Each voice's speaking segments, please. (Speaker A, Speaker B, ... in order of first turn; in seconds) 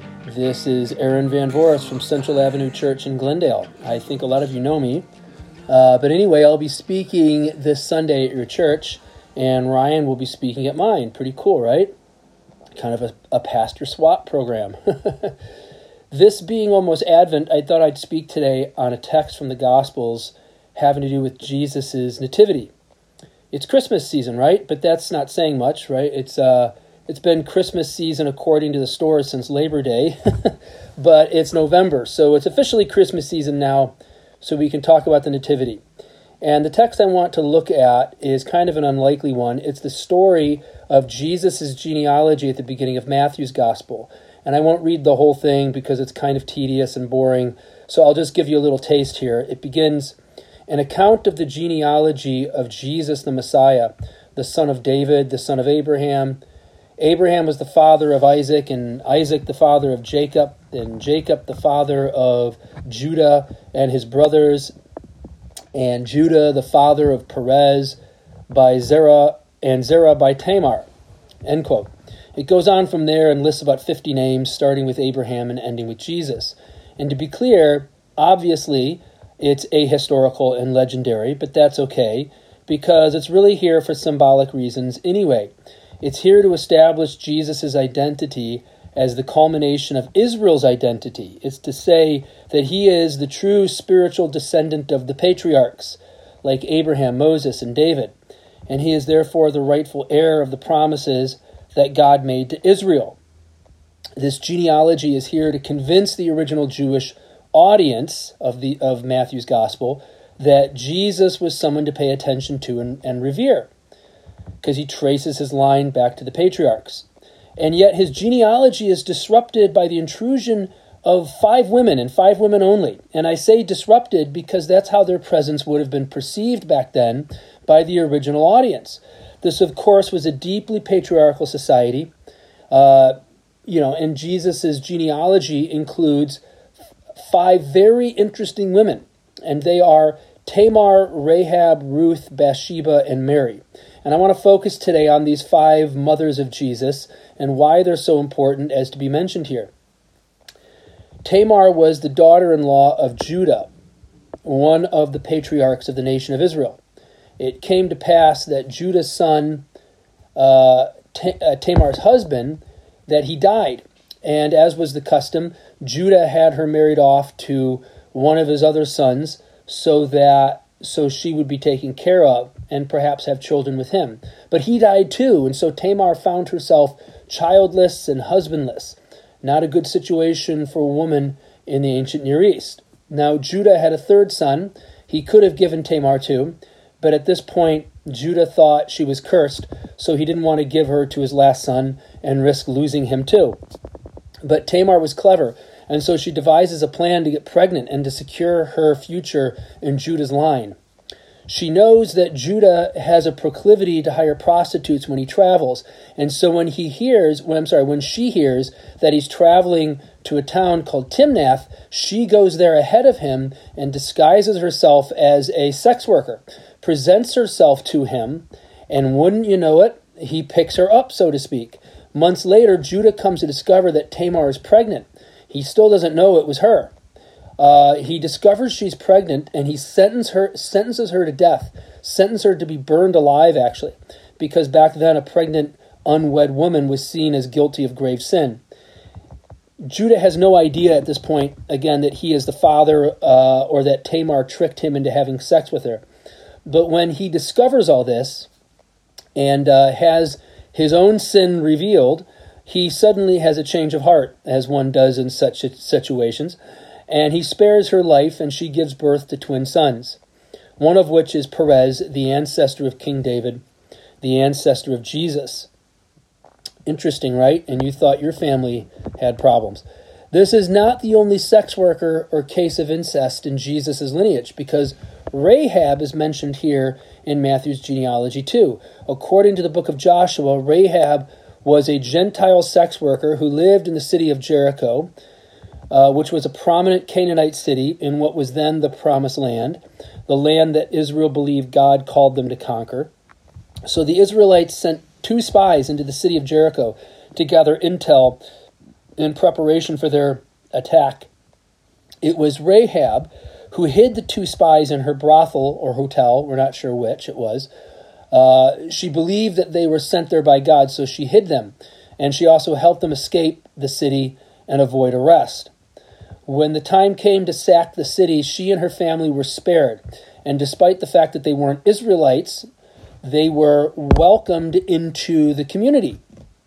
Speaker A: 0.2-5.1, 5.7-11.9, 12.8-15.3, 16.1-22.7, 23.5-35.8, 36.4-50.2, 50.7-56.4, 57.0-64.7, 65.7-68.0, 68.5-70.9, 71.4-98.1, 98.7-103.2, 104.2-113.7, 114.6-132.1, 132.7-136.4, 137.2-149.7, 151.2-153.7, 154.4-156.8, 157.4-159.7, 160.3-193.6, 194.4-200.8, 201.5-226.9, 227.6-238.6, 239.8-246.1, 246.7-248.5, 249.3-260.2, 260.8-263.6, 264.2-265.7, 266.9-285.1, 285.9-293.1, 293.9-298.4, 299.2-301.3, 302.2-307.7, 308.3-315.7, 316.5-322.7, 323.2-326.2